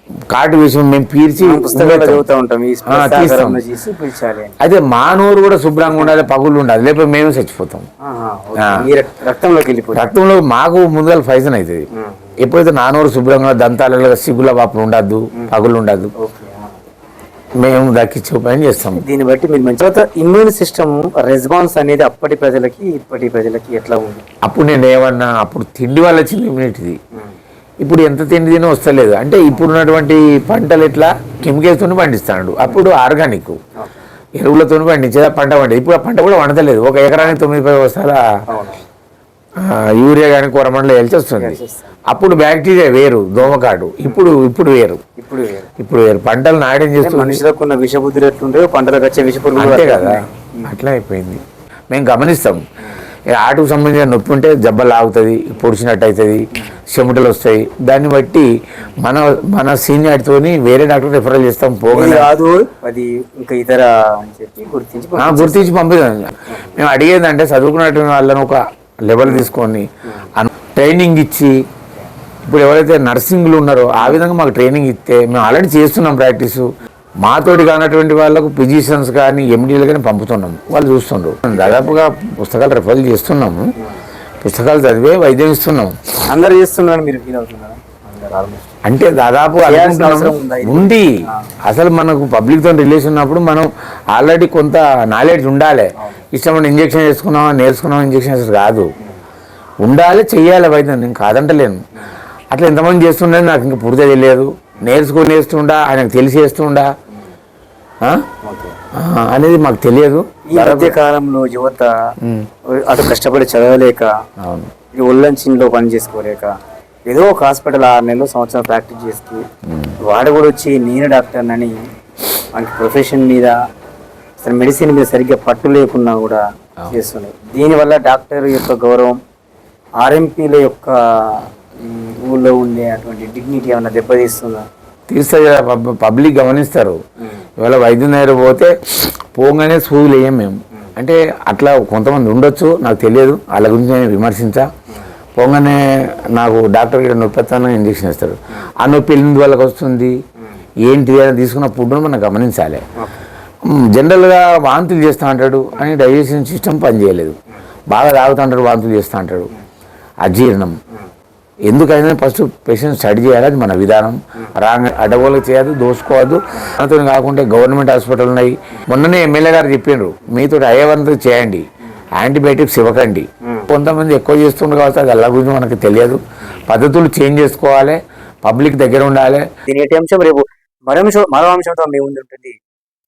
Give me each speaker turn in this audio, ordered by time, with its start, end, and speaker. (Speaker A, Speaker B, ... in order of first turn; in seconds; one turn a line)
Speaker A: 0.3-2.2
Speaker B: 1.4-4.5
Speaker A: 2.9-3.6
Speaker A: 4.6-7.8
Speaker B: 5.8-6.2
Speaker B: 8.0-10.1
Speaker A: 8.6-8.9
Speaker A: 9.9-11.9
Speaker B: 11.9-12.3
Speaker A: 12.4-16.1
Speaker B: 16.2-16.8
Speaker A: 17.6-19.0
Speaker B: 18.9-24.2
Speaker A: 24.4-27.0
Speaker A: 27.8-33.6
Speaker B: 33.8-34.0
Speaker A: 34.4-38.2
Speaker B: 38.5-38.9
Speaker A: 39.6-45.0
Speaker B: 41.4-42.0
Speaker B: 45.2-45.7
Speaker A: 45.8-47.4
Speaker B: 47.0-50.7
Speaker A: 49.6-52.6
Speaker A: 53.3-58.5
Speaker A: 59.0-62.3
Speaker B: 61.9-65.7
Speaker A: 65.2-71.6
Speaker B: 66.5-66.7
Speaker B: 69.2-69.5
Speaker A: 72.4-76.7
Speaker A: 77.2-83.7
Speaker B: 81.5-82.0
Speaker A: 84.4-85.9
Speaker B: 86.3-88.7
Speaker A: 88.8-91.1
Speaker B: 89.6-91.5
Speaker A: 91.7-98.9
Speaker B: 96.0-96.2
Speaker A: 99.8-101.8
Speaker A: 102.5-106.9
Speaker B: 108.4-108.8
Speaker A: 108.9-111.0
Speaker B: 110.5-112.1
Speaker A: 112.2-112.5
Speaker B: 112.7-114.1
Speaker A: 114.4-114.7
Speaker B: 114.9-116.5
Speaker B: 117.1-119.5
Speaker A: 119.7-119.9
Speaker B: 120.0-121.8
Speaker B: 122.5-123.6
Speaker B: 124.4-129.2
Speaker B: 130.0-134.6
Speaker A: 135.1-137.0
Speaker A: 137.6-138.7
Speaker A: 139.3-144.7
Speaker A: 145.4-150.2
Speaker A: 150.8-152.8
Speaker B: 153.0-153.2
Speaker A: 153.6-157.3
Speaker A: 157.9-159.5
Speaker A: 160.2-160.8
Speaker A: 161.7-171.7
Speaker A: 172.2-179.5
Speaker B: 173.4-173.7
Speaker B: 179.7-182.6